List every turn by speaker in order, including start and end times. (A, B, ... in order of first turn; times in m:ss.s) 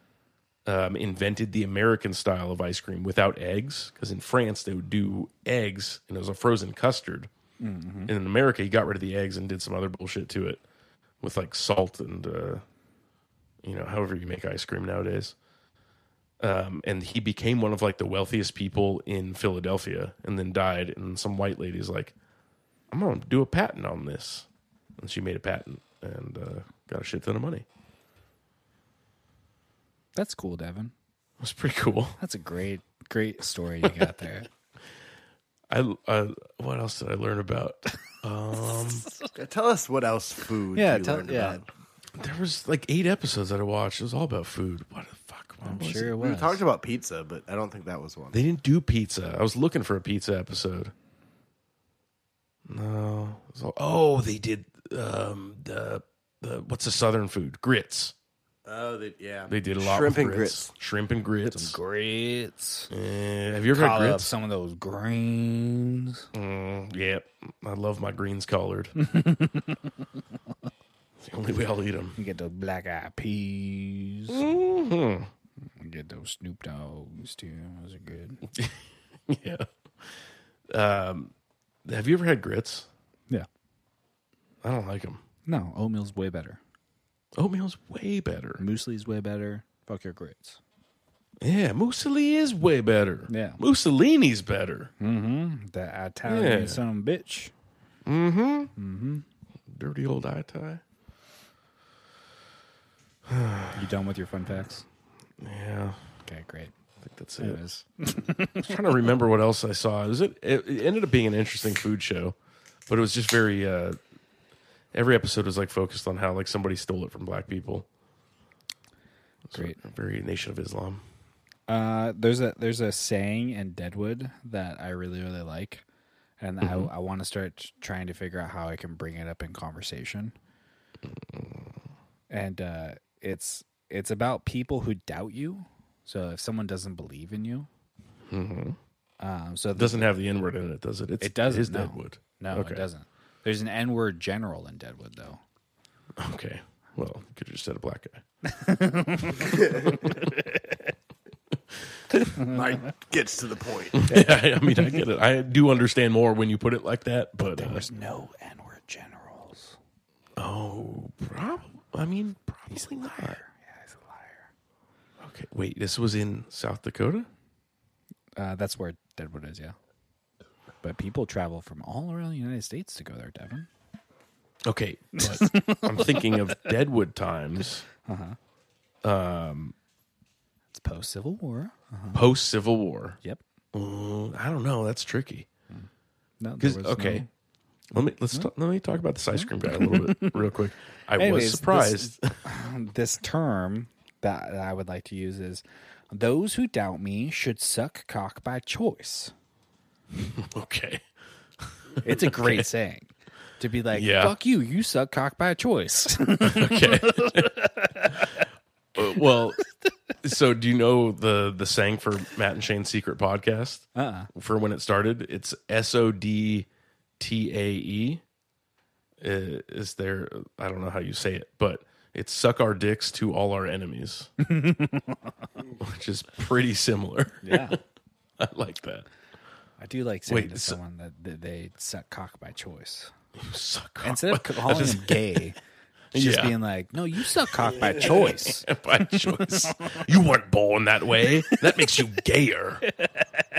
0:00.6-0:07.3 A
0:07.6-0:08.1 B
0:08.1-0:10.6 A
0:11.2-0:12.6 A
0:13.6-0:15.3 A
0:16.4-0:22.1 A
0:22.9-0:24.5 A
0:25.0-0:27.6 A
0:30.1-0:30.9 B
0:31.4-0:32.2 A
0:32.2-0:34.5 B
0:35.7-0:39.1 A
0:39.3-0:41.6 C
0:40.7-0:41.6 B
0:42.2-0:46.1 A
0:45.6-0:46.6 B
0:46.1-0:48.4 C
0:48.3-0:50.9 A
0:52.7-0:58.1 A
0:58.6-1:00.7 C
0:59.5-1:01.8 A
1:01.5-1:02.9 B
1:02.9-1:04.3 A
1:03.7-1:06.3 B
1:06.3-1:08.9 A
1:09.0-1:09.7 B
1:11.2-1:12.2 A
1:12.2-1:14.4 B
1:14.3-1:15.3 A
1:15.8-1:18.4 B
1:18.5-1:19.7 A
1:20.7-1:21.3 A
1:21.8-1:22.9 A
1:24.6-1:25.2 A
1:25.4-1:26.6 B
1:27.4-1:28.6 A
1:28.6-1:30.6 B
1:31.4-1:34.9 A
1:33.3-1:33.6 B
1:35.0-1:37.5 B
1:36.3-1:36.8 A
1:38.0-1:38.7 A
1:38.8-1:39.2 B
1:39.7-1:40.8 A
1:43.2-1:43.8 A
1:43.7-1:44.8 B
1:45.4-1:46.0 A
1:46.2-1:46.7 B
1:47.0-1:47.6 A
1:47.4-1:48.8 B
1:48.6-1:52.4 A
1:52.9-1:54.0 A
1:54.9-1:57.9 A
1:59.5-2:01.0 A
2:01.7-2:05.8 B
2:06.4-2:10.3 B
2:06.6-2:06.9 A
2:11.1-2:11.7 A
2:12.3-2:17.7 B
2:18.3-2:18.8 A
2:19.2-2:20.0 B
2:19.8-2:22.8 A
2:21.2-2:25.4 B
2:26.2-2:28.2 A
2:28.5-2:30.3 B
2:29.9-2:30.2 A
2:32.5-2:34.1 C
2:34.0-2:37.8 A
2:34.1-2:35.0 B
2:37.4-2:39.8 B
2:40.4-2:43.4 A
2:42.7-2:44.5 B
2:45.2-2:47.3 A
2:48.4-2:49.8 B
2:50.8-2:53.7 B
2:54.6-2:57.8 A
2:55.2-2:56.7 B
2:58.0-2:58.4 B
2:59.0-2:59.7 A
3:00.7-3:02.2 B
3:02.1-3:03.2 A
3:03.7-3:05.5 A
3:06.4-3:07.3 B
3:06.6-3:07.2 A
3:07.9-3:12.4 A
3:09.3-3:10.5 B
3:11.2-3:19.3 B
3:20.3-3:21.0 A
3:21.6-3:22.6 A
3:22.0-3:28.4 B
3:23.9-3:24.3 A
3:26.4-3:27.5 A
3:29.0-3:29.6 A
3:30.2-3:36.7 A
3:34.0-3:34.3 B
3:37.2-3:38.2 A
3:39.2-3:44.3 A
3:44.4-3:45.3 B
3:45.8-3:47.8 A
3:47.4-3:47.8 B
3:48.4-3:49.0 A
3:49.8-3:53.1 B
3:50.3-3:50.8 A
3:53.4-3:55.4 A
3:54.0-3:55.6 B
3:56.1-3:56.6 A
3:56.1-4:00.0 B
3:57.6-4:02.8 A
4:01.4-4:02.0 B
4:02.9-4:03.4 B